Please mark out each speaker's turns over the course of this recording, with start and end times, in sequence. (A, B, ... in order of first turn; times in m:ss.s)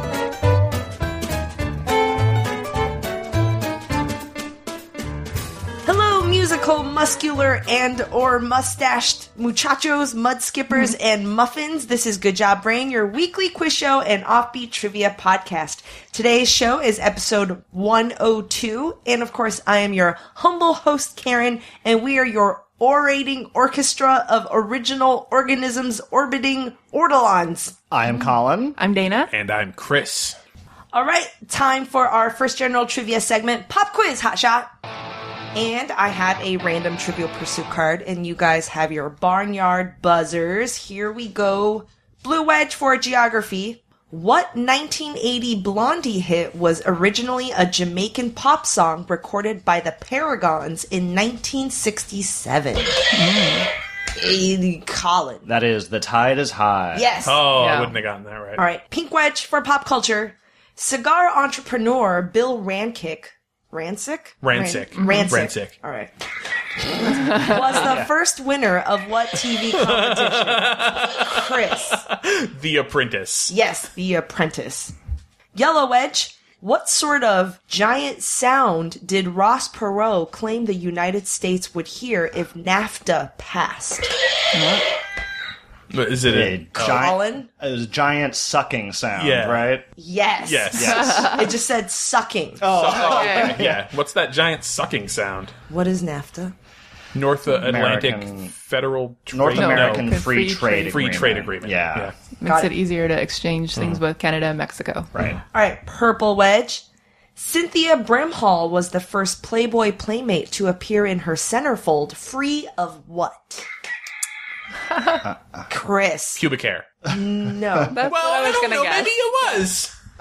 0:05.8-0:27.8 A
0:27.9-0:28.8 B
0:28.8-0:29.3 C
0:29.3-0:30.4 D
0:30.9-0:34.7 A
0:35.5-0:53.0 A
0:53.1-0:53.7 C
0:54.2-0:55.4 A
0:55.4-0:57.1 B
0:56.9-0:57.4 A
0:57.2-0:58.6 D
0:57.6-0:57.9 C
0:58.6-1:06.1 A
1:04.4-1:05.8 D
1:06.8-1:12.0 A
1:07.3-1:07.6 C
1:07.7-1:08.1 D
1:09.7-1:13.5 D
1:13.5-1:14.9 A
1:15.5-1:24.1 A
1:24.5-1:24.8 C
1:25.9-1:27.1 D
1:26.3-1:29.8 B
1:26.8-1:27.5 A
1:29.2-1:29.8 D
1:30.0-1:32.8 A
1:30.4-1:31.2 D
1:30.7-1:31.4 B
1:31.0-1:31.4 C
1:32.6-1:33.8 B
1:32.6-1:35.6 D
1:33.1-1:33.6 C
1:35.7-1:36.6 A
1:37.1-1:40.1 D
1:37.6-1:38.5 B
1:39.3-1:42.1 B
1:39.5-1:41.2 C
1:40.9-1:42.2 D
1:42.4-1:45.1 C
1:42.4-1:42.7 A
1:45.1-1:45.4 B
1:45.5-1:46.8 A
1:47.4-1:53.6 A
1:55.0-1:55.2 C
1:55.2-1:55.6 B
1:55.7-1:56.4 A
1:56.4-1:56.9 D
1:57.1-1:58.0 A
1:57.9-1:59.2 C
1:58.1-1:59.9 D